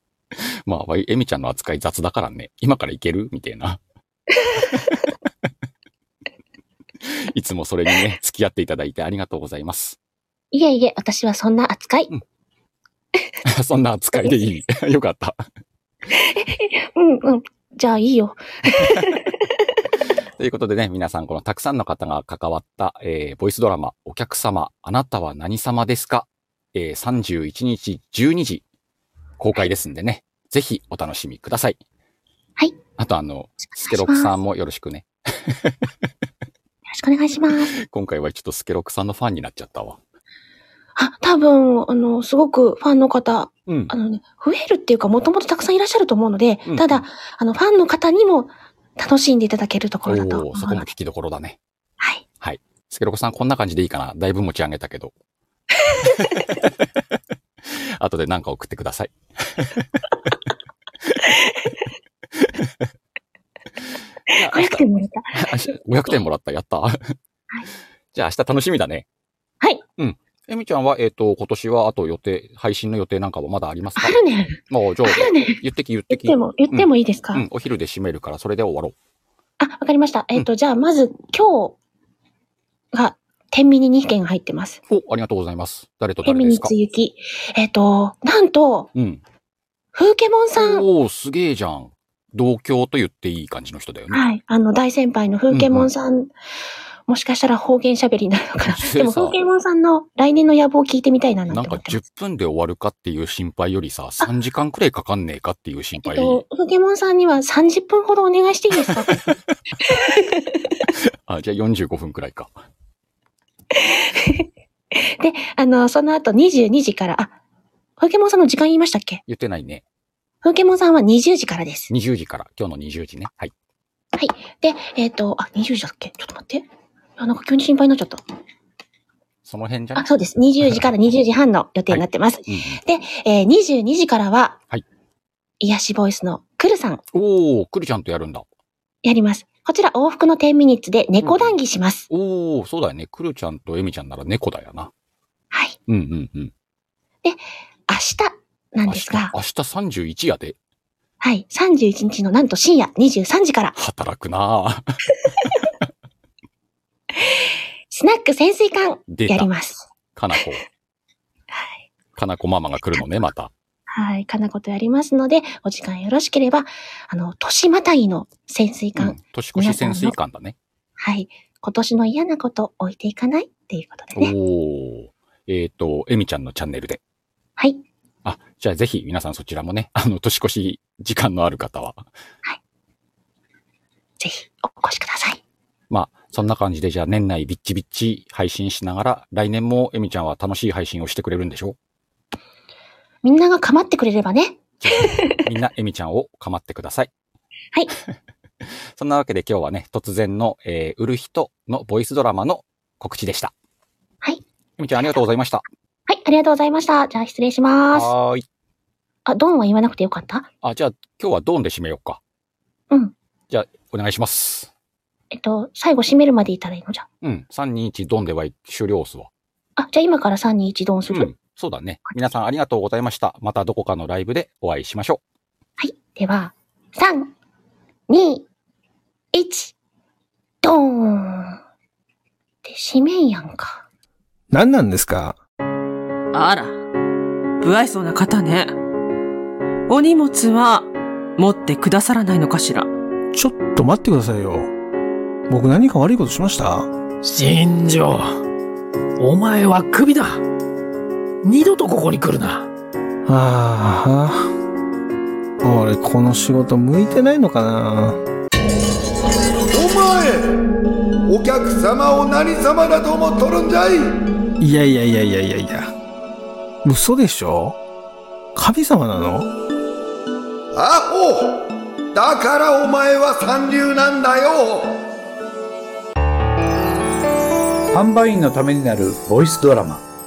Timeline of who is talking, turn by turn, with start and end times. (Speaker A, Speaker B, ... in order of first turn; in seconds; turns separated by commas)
Speaker A: 0.3-3.8, Speaker B: 4.5-4.8, Speaker A: 7.0-10.0, Speaker B: 10.5-12.1, Speaker A: 13.4-15.4, Speaker B: 16.1-19.4, Speaker A: 18.8-19.2, Speaker A: 20.4-28.6, Speaker A: 29.4-31.8, Speaker A: 33.0-35.9, Speaker B: 33.6-34.3, Speaker B: 36.9-37.7, Speaker A: 37.5-40.0, Speaker B: 41.0-50.9, Speaker A: 43.7-43.9, Speaker A: 46.7-47.0, Speaker A: 50.1-51.6, Speaker A: 52.4-55.1, Speaker B: 55.9-56.4, Speaker A: 56.1-56.7, Speaker A: 57.6-60.0, Speaker B: 61.3-61.8, Speaker A: 62.4-62.8, Speaker B: 64.3-65.7, Speaker A: 64.3-67.2, Speaker A: 68.1-69.1, Speaker A: 70.0-79.0, Speaker B: 74.0-77.5, Speaker B: 79.6-81.8, Speaker B: 82.9-84.8, Speaker A: 84.9-86.7, Speaker B: 86.2-88.9, Speaker A: 89.0-89.2, Speaker B: 90.0-90.9, Speaker A: 90.6-94.2, Speaker B: 94.1-96.3, Speaker A: 95.5-95.9, Speaker B: 97.1-102.0, Speaker A: 98.6-99.4, Speaker A: 101.5-106.4, Speaker B: 106.0-109.3, Speaker A: 108.8-109.3, Speaker B: 109.8-110.8, Speaker A: 111.2-112.5, Speaker B: 113.7-117.3, Speaker B: 118.0-119.2, Speaker A: 119.3-119.8, Speaker B: 120.4-121.9, Speaker A: 121.9-123.5, Speaker B: 124.1-126.7, Speaker B: 127.2-128.2, Speaker A: 129.4-130.1, Speaker B: 129.9-134.6, Speaker A: 130.6-130.9, Speaker A: 131.9-132.8, Speaker B: 135.6-137.0, Speaker A: 137.1-138.5, Speaker B: 139.0-142.1, Speaker A: 141.2-141.6, Speaker A: 142.1-144.9, Speaker B: 145.5-145.8, Speaker A: 145.9-146.5, Speaker B: 147.2-149.4, Speaker A: 148.9-150.6, Speaker B: 151.2-153.8, Speaker A: 153.8-155.5, Speaker B: 157.1-160.4, Speaker A: 159.1-159.5, Speaker A: 160.2-160.6, Speaker B: 161.5-161.8, Speaker A: 162.2-163.5, Speaker B: 163.9-170.2, Speaker A: 169.0-170.6, Speaker B: 171.0-174.3, Speaker A: 174.2-177.0, Speaker B: 177.6-177.8, Speaker A: 178.2-182.1, Speaker B: 184.2-185.4, Speaker A: 185.9-191.8, Speaker B: 193.2-195.4, Speaker A: 194.8-197.1, Speaker A: 198.6-203.5, Speaker A: 204.8-205.6, Speaker B: 206.1-208.1, Speaker A: 207.9-208.5, Speaker B: 209.3-210.5, Speaker A: 210.6-212.2, Speaker A: 213.5-214.7, Speaker B: 215.3-217.1, Speaker A: 217.2-219.3, Speaker B: 219.8-221.3, Speaker A: 221.1-225.2, Speaker B: 225.8-227.3, Speaker B: 228.1-228.5, Speaker B: 229.3-229.7, Speaker B: 230.6-231.6, Speaker B: 232.7-233.8, Speaker C: 234.5-235.4, Speaker D: 236.3-236.8, Speaker D: 237.6-238.7, Speaker D: 239.9-242.9, Speaker C: 243.3-244.7, Speaker C: 245.5-246.9, Speaker E: 247.2-248.3, Speaker E: 249.2-250.4, Speaker E: 251.4-252.7, Speaker C: 253.3-254.5, Speaker C: 255.6-258.2, Speaker F: 259.7-260.6, Speaker F: 261.3-264.1, Speaker C: 264.6-265.9, Speaker C: 266.8-267.8, Speaker C: 268.6-269.5, Speaker F: 270.7-275.0, Speaker G: 277.9-280.0